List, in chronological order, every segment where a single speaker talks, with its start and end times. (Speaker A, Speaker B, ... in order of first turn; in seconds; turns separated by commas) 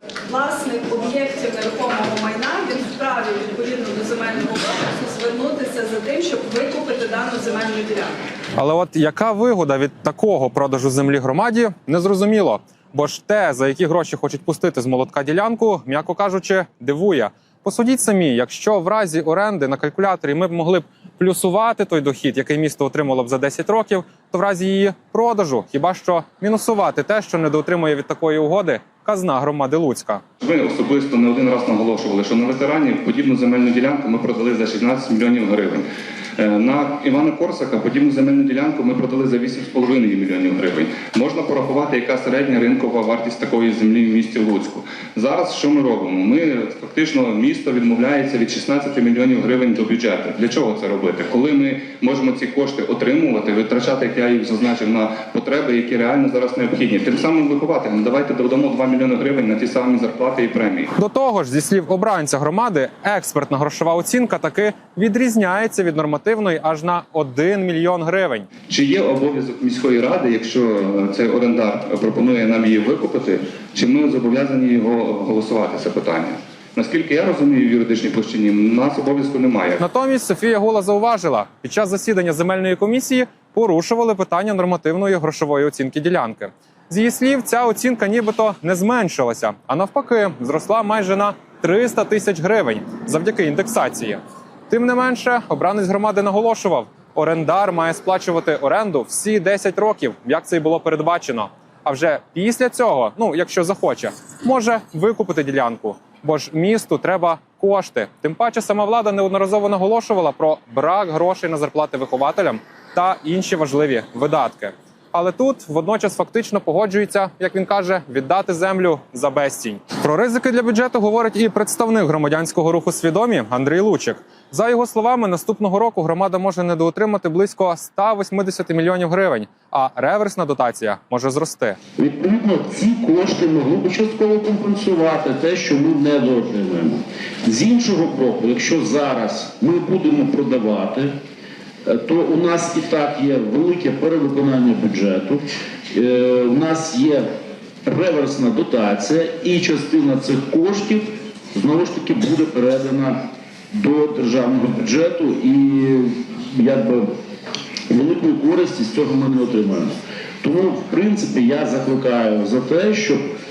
Speaker A: 0.3-8.2, Speaker B: 8.6-30.2, Speaker C: 30.4-35.9, Speaker C: 36.4-60.9, Speaker B: 61.0-68.5, Speaker C: 68.7-79.8, Speaker B: 79.8-131.8, Speaker D: 132.0-141.1, Speaker D: 141.8-147.3, Speaker D: 147.8-153.2, Speaker D: 153.7-157.1, Speaker D: 157.9-163.2